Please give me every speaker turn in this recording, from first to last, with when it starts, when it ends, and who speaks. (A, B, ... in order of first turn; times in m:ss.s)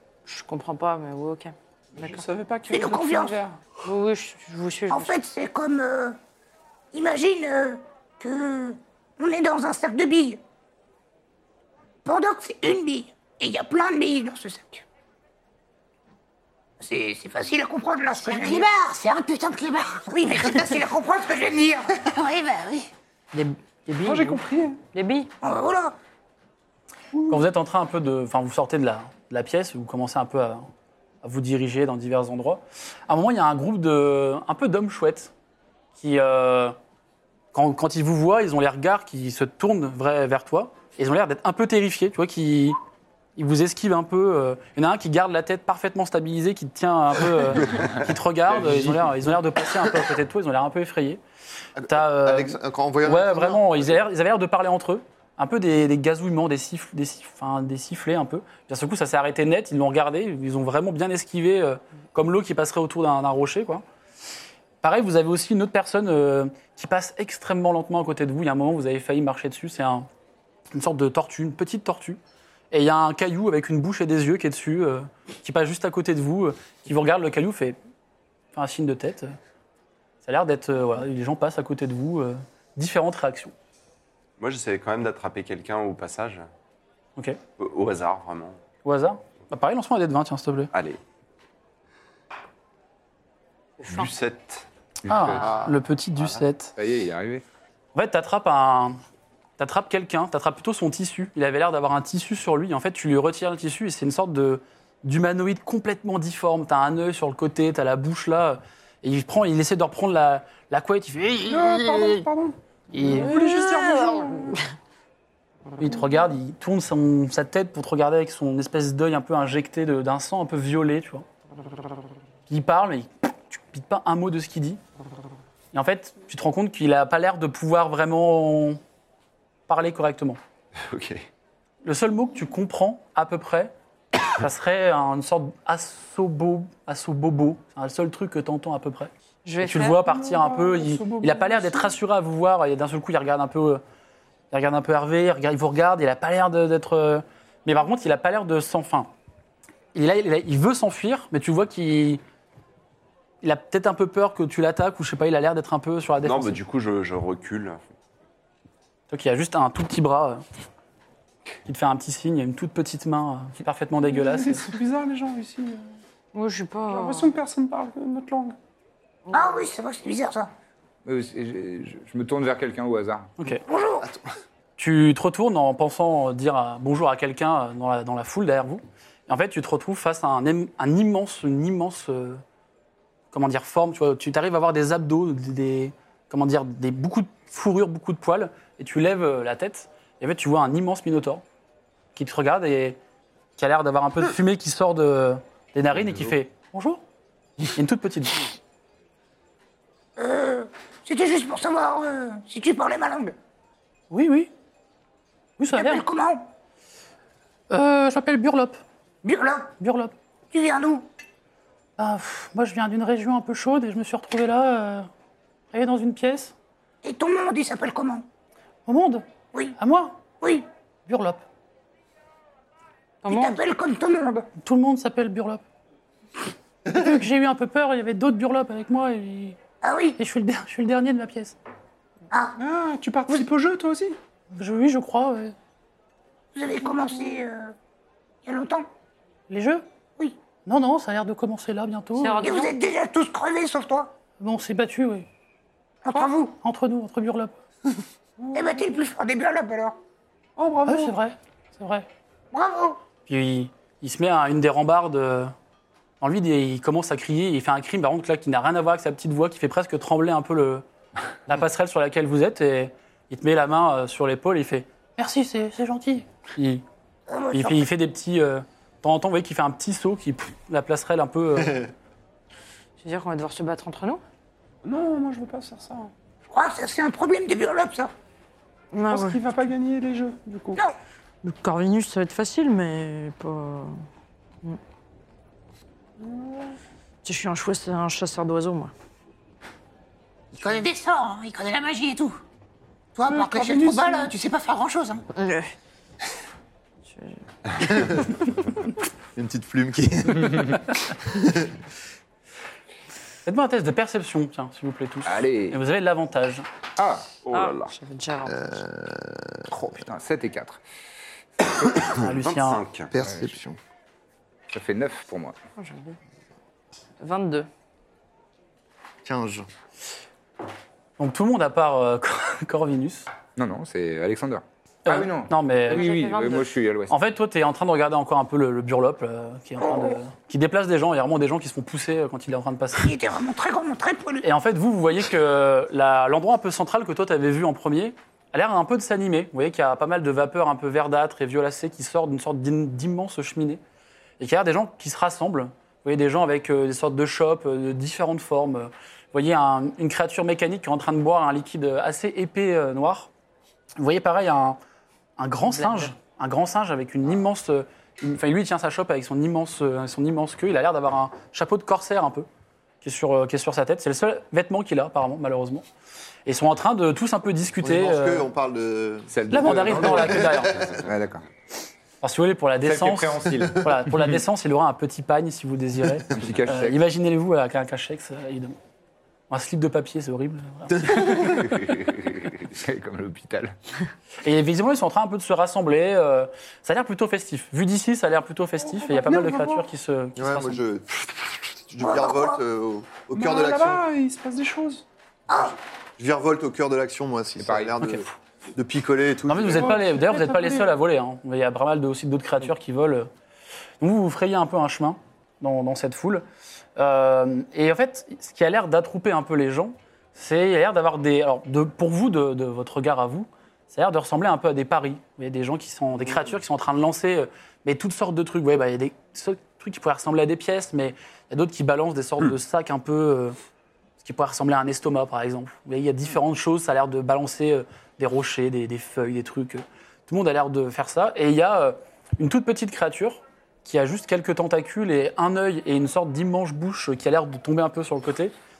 0:00.3-0:02.2 A
0:02.0-0:03.6 B
0:02.7-0:03.4 C
0:03.8-0:05.1 A
0:04.9-0:06.2 C
0:06.9-0:10.4 C
0:12.0-0:14.8 C
0:16.8-0:18.7 C
0:18.2-0:20.0 D
0:20.0-0:22.0 C
0:22.0-0:22.9 D
0:23.3-0:24.4 A
0:24.0-0:24.8 B
0:24.9-0:25.3 A
0:25.4-0:25.9 C
0:27.3-0:30.7 E
0:31.2-0:35.3 E
0:36.0-0:36.8 E
0:37.5-0:42.8 E
0:43.4-0:51.2 E
0:51.8-0:53.9 F
0:51.9-1:03.8 E
1:04.8-1:10.0 E
1:10.7-1:12.2 E
1:12.7-1:17.8 E
1:18.5-1:19.4 E
1:20.2-1:23.5 E
1:24.4-1:26.5 G
1:27.6-1:28.6 G
1:28.8-1:30.7 E
1:30.7-1:31.0 G
1:33.8-1:34.6 G
1:35.0-1:36.7 E
1:35.1-1:35.5 H
1:35.4-1:35.7 G
1:36.8-1:37.4 H
1:37.9-1:39.0 E
1:39.6-1:52.2 E
1:51.4-1:54.6 B
1:52.9-1:53.4 E
1:53.0-1:54.6 A
1:55.8-2:01.2 E
2:02.5-2:04.8 E
2:05.7-2:08.8 E
2:09.7-2:10.4 E
2:10.9-2:11.2 G
2:11.8-2:13.7 E
2:14.3-2:23.8 E
2:19.4-2:20.0 A
2:20.0-2:21.9 B
2:24.5-2:29.1 E
2:29.9-2:32.2 E
2:33.4-2:36.6 E
2:36.2-2:37.8 G
2:39.1-2:40.4 E
2:41.6-2:44.7 E
2:44.0-2:45.9 B
2:46.3-2:47.3 A
2:46.9-2:48.6 B
2:49.3-2:50.5 C
2:51.0-2:53.3 H
2:53.6-2:54.1 C
2:54.8-3:02.4 E
3:03.3-3:11.4 E
3:12.1-3:13.0 E
3:13.6-3:17.0 E
3:17.7-3:18.5 E
3:20.2-3:23.3 C
3:24.1-3:24.5 E
3:25.6-3:26.0 E
3:25.7-3:26.5 C
3:27.7-3:28.8 E
3:29.2-3:29.7 C
3:29.8-3:30.1 E
3:30.5-3:31.0 C
3:32.0-3:35.1 E
3:35.7-3:36.5 E
3:37.0-3:38.2 C
3:38.8-3:39.2 E
3:39.8-3:40.2 E
3:40.4-3:40.6 C
3:41.1-3:41.4 E
3:43.2-3:43.6 A
3:43.3-3:44.5 C
3:44.6-3:45.6 E
3:46.8-3:49.6 E
3:49.8-3:50.2 C
3:50.2-3:51.6 E
3:52.3-3:52.6 C
3:52.6-3:54.2 B
3:54.5-3:55.5 E
3:56.5-3:57.7 C
3:58.4-3:58.9 C
3:59.5-3:59.8 E
4:00.6-4:02.5 E
4:02.2-4:02.7 A
4:02.4-4:04.1 C
4:04.4-4:05.2 E
4:06.0-4:06.5 C
4:06.6-4:07.5 E
4:08.4-4:08.9 B
4:08.5-4:10.0 C
4:10.6-4:11.1 B
4:10.9-4:12.0 E
4:12.5-4:13.0 C
4:13.3-4:15.5 E
4:16.2-4:20.8 E
4:21.5-4:26.8 E
4:27.3-4:27.8 C
4:27.5-4:31.9 E
4:33.0-4:34.2 A
4:34.8-4:36.1 B
4:36.5-4:38.1 C
4:38.9-4:39.4 A
4:39.1-4:40.8 B
4:41.4-4:44.0 A
4:46.2-4:46.8 B
4:47.2-4:48.9 A
4:50.5-4:52.4 D
4:53.1-4:55.2 D
4:53.3-4:54.3 B
4:55.3-4:55.7 A
4:57.0-4:57.4 A
4:57.9-4:58.1 F
4:57.9-4:58.3 A
4:59.4-5:01.7 F
5:03.4-5:06.7 E
5:05.2-5:05.8 H
5:07.0-5:07.3 H
5:07.4-5:07.9 G
5:07.5-5:08.8 A
5:08.5-5:09.7 F
5:09.7-5:10.8 H
5:12.2-5:12.8 E
5:12.2-5:13.1 G
5:13.1-5:13.8 F
5:13.2-5:13.6 H
5:14.7-5:15.6 H
5:15.8-5:16.2 A
5:17.2-5:17.7 A
5:19.2-5:19.7 F
5:21.2-5:23.3 E
5:23.6-5:27.2 H
5:25.0-5:26.1 E
5:25.9-5:26.7 A
5:27.1-5:33.1 E
5:29.8-5:30.1 C
5:33.0-5:34.5 C
5:34.4-5:43.8 E
5:44.4-5:53.3 E
5:54.0-5:54.8 E
5:55.4-6:02.5 E
5:55.7-5:56.1 A
6:03.0-6:05.8 E
6:06.4-6:08.5 E
6:07.8-6:11.0 F
6:09.3-6:11.4 H
6:09.5-6:10.8 E
6:12.2-6:18.8 E
6:12.8-6:14.4 H
6:16.3-6:17.0 H
6:19.5-6:21.7 E
6:21.6-6:23.7 H
6:24.4-6:30.8 E
6:28.8-6:29.9 B
6:30.4-6:34.0 F
6:32.0-6:32.6 C
6:33.3-6:35.0 B
6:35.5-6:35.8 C
6:36.2-6:40.0 F
6:37.6-6:38.2 H
6:39.5-6:43.3 E
6:39.7-6:40.9 B
6:44.0-6:46.4 E
6:47.0-7:03.6 E
7:04.2-7:18.5 E